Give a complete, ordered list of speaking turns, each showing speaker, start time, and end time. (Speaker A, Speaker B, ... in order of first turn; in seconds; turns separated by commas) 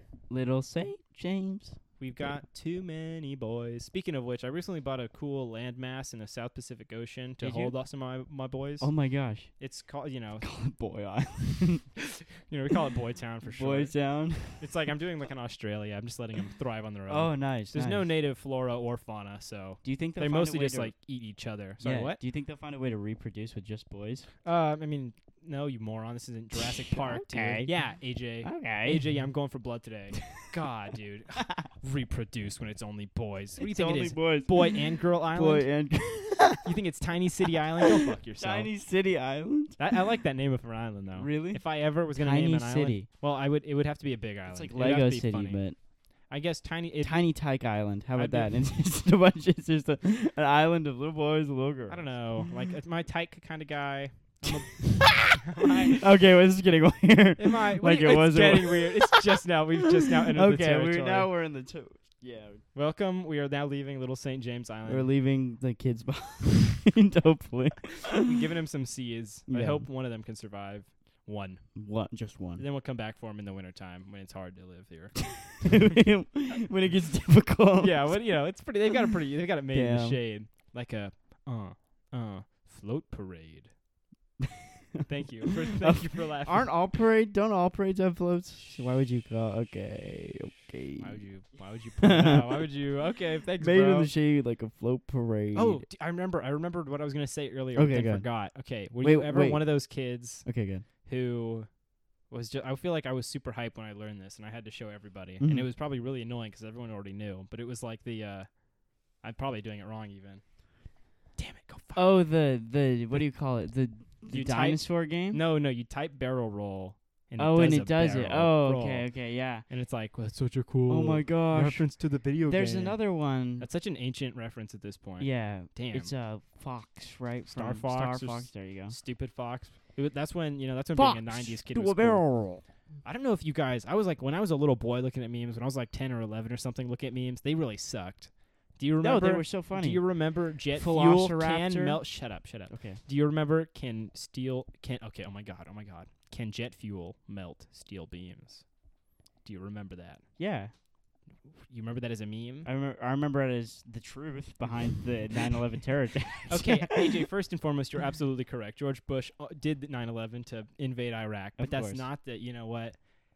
Speaker A: 0.3-1.8, Speaker B: 2.0-8.9, Speaker A: 7.4-7.8, Speaker A: 8.8-9.5, Speaker B: 9.6-10.5, Speaker A: 10.4-11.9, Speaker B: 12.0-13.9, Speaker A: 13.4-14.7, Speaker B: 14.6-22.2, Speaker A: 17.1-18.1, Speaker A: 19.8-20.9, Speaker A: 21.8-24.3, Speaker B: 24.4-35.7, Speaker A: 26.6-27.7, Speaker A: 28.4-29.0, Speaker A: 31.4-31.6, Speaker A: 33.6-36.8, Speaker B: 36.6-38.7, Speaker A: 37.8-39.8, Speaker B: 39.8-45.6, Speaker A: 41.2-43.1, Speaker A: 44.5-45.8, Speaker B: 46.3-47.3, Speaker A: 47.0-52.5, Speaker B: 48.2-48.5, Speaker B: 51.9-56.0, Speaker A: 54.5-62.6, Speaker B: 57.4-61.3, Speaker B: 62.8-65.1, Speaker A: 64.9-68.4, Speaker B: 68.2-71.6, Speaker A: 69.5-69.9, Speaker A: 71.8-72.6, Speaker B: 72.6-76.0, Speaker A: 75.6-78.2, Speaker B: 77.8-83.7, Speaker A: 79.7-80.2, Speaker A: 84.4-91.2, Speaker B: 85.1-86.7, Speaker B: 91.0-94.1, Speaker A: 92.0-92.7, Speaker A: 93.6-95.8, Speaker B: 95.5-100.5, Speaker A: 97.8-98.3, Speaker A: 99.0-99.7, Speaker A: 100.5-100.8, Speaker B: 101.0-101.7, Speaker B: 102.3-108.5, Speaker A: 105.4-105.7, Speaker B: 109.2-110.4, Speaker B: 111.4-112.1, Speaker A: 112.0-115.4, Speaker B: 114.3-119.1, Speaker A: 117.4-119.7, Speaker B: 119.7-123.0, Speaker A: 120.9-121.9, Speaker A: 122.5-123.7, Speaker B: 123.6-126.1, Speaker A: 125.2-129.0, Speaker B: 127.5-132.2, Speaker A: 130.9-132.6, Speaker B: 133.0-148.7, Speaker A: 139.0-140.1, Speaker A: 140.7-142.0, Speaker A: 142.7-143.0, Speaker B: 149.4-150.2, Speaker A: 150.4-150.7, Speaker B: 151.7-152.7, Speaker A: 152.7-157.2, Speaker B: 156.5-163.0, Speaker A: 161.6-162.1